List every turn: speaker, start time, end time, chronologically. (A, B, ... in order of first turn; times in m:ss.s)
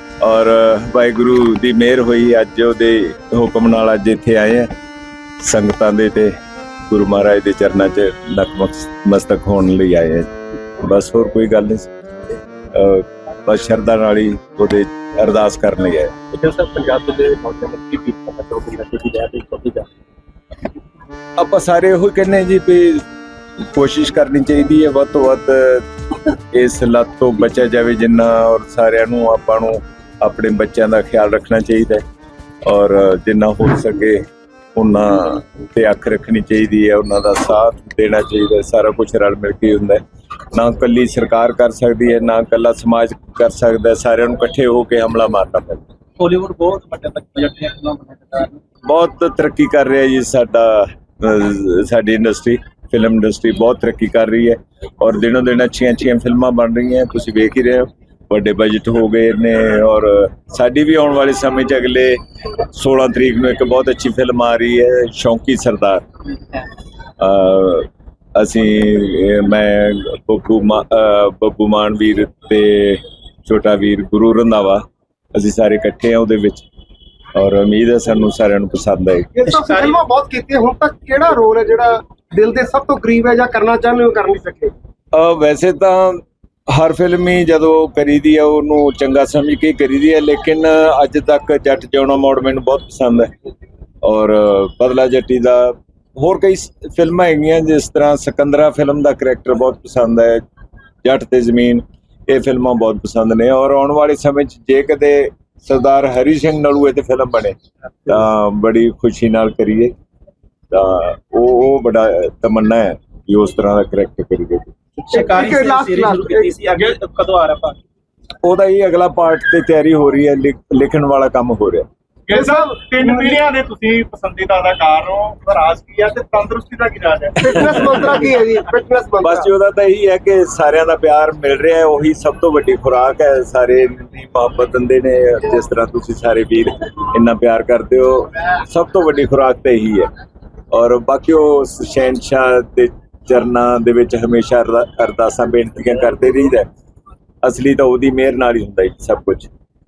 0:00.2-0:04.7 A
0:05.4-0:06.4 A
0:06.9-0:11.9 A
0:12.7-0:16.1 A
0:16.3-0:19.9 B
0:21.4-0:23.0 A
0:23.6-0:25.9 A
0:26.5-0:32.0 A
0:32.6-0:45.8 A
0:46.2-0:48.6 B
0:48.8-1:06.0 A
1:07.2-1:16.6 A
1:17.3-1:19.3 A
1:19.4-1:24.7 C
1:19.5-1:20.0 B
1:25.1-1:33.3 A
1:34.0-1:40.4 A
1:41.0-1:49.9 A
1:50.7-1:54.7 A
1:55.0-1:57.8 B
1:55.1-1:56.6 C
1:58.4-2:01.8 A
2:02.3-2:08.1 D
2:02.3-2:03.3 C
2:07.4-2:09.5 C
2:09.2-2:20.1 A
2:20.7-2:26.7 A
2:27.4-2:29.5 A